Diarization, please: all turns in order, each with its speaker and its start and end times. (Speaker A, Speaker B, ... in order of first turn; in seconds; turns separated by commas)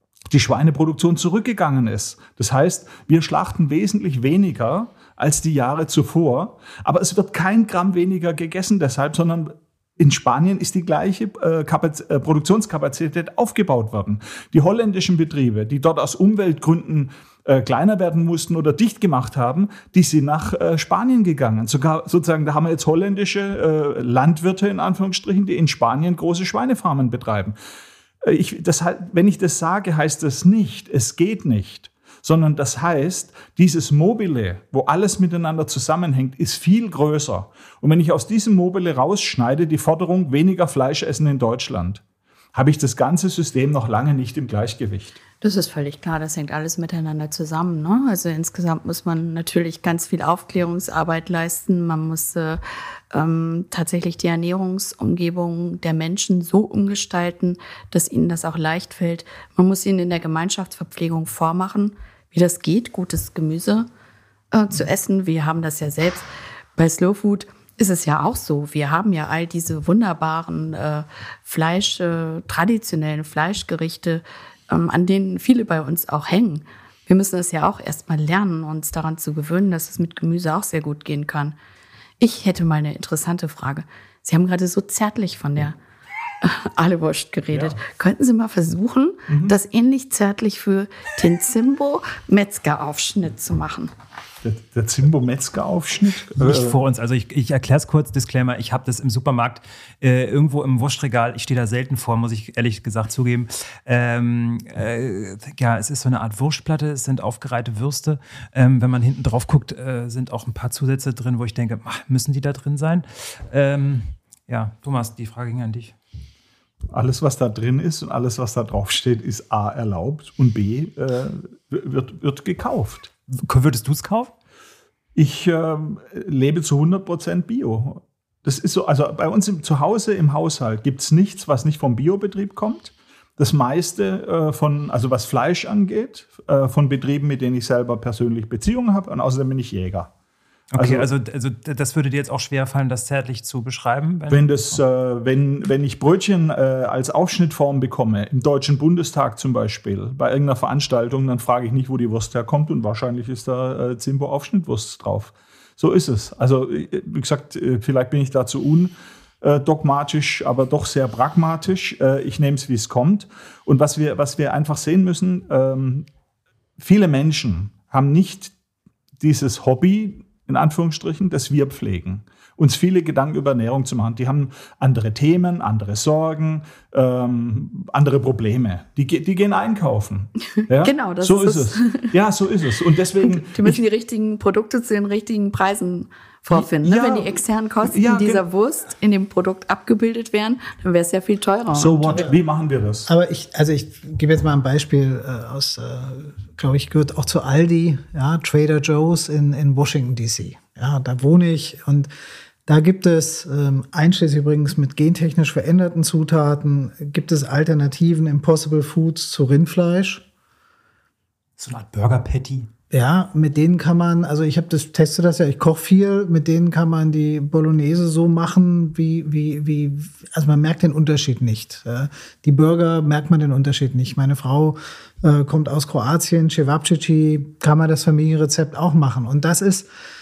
Speaker A: 0.3-27.6, Speaker A: 28.2-42.0, Speaker A: 42.5-45.2, Speaker B: 45.4-52.6, Speaker B: 53.1-63.9, Speaker B: 64.5-81.6, Speaker B: 82.2-85.8, Speaker B: 86.4-93.9, Speaker A: 87.5-87.8, Speaker A: 89.3-89.5, Speaker A: 94.4-96.8, Speaker C: 96.4-116.0, Speaker A: 116.9-123.1, Speaker C: 123.3-124.3, Speaker A: 125.2-140.1, Speaker C: 140.7-144.8, Speaker A: 140.8-141.1, Speaker A: 144.3-166.1, Speaker A: 166.8-168.5, Speaker A: 169.2-183.8, Speaker B: 180.6-182.1, Speaker B: 183.2-192.3, Speaker A: 186.5-188.4, Speaker A: 191.7-193.1, Speaker D: 193.1-202.1, Speaker D: 202.7-210.3, Speaker C: 211.6-212.7, Speaker D: 212.9-229.9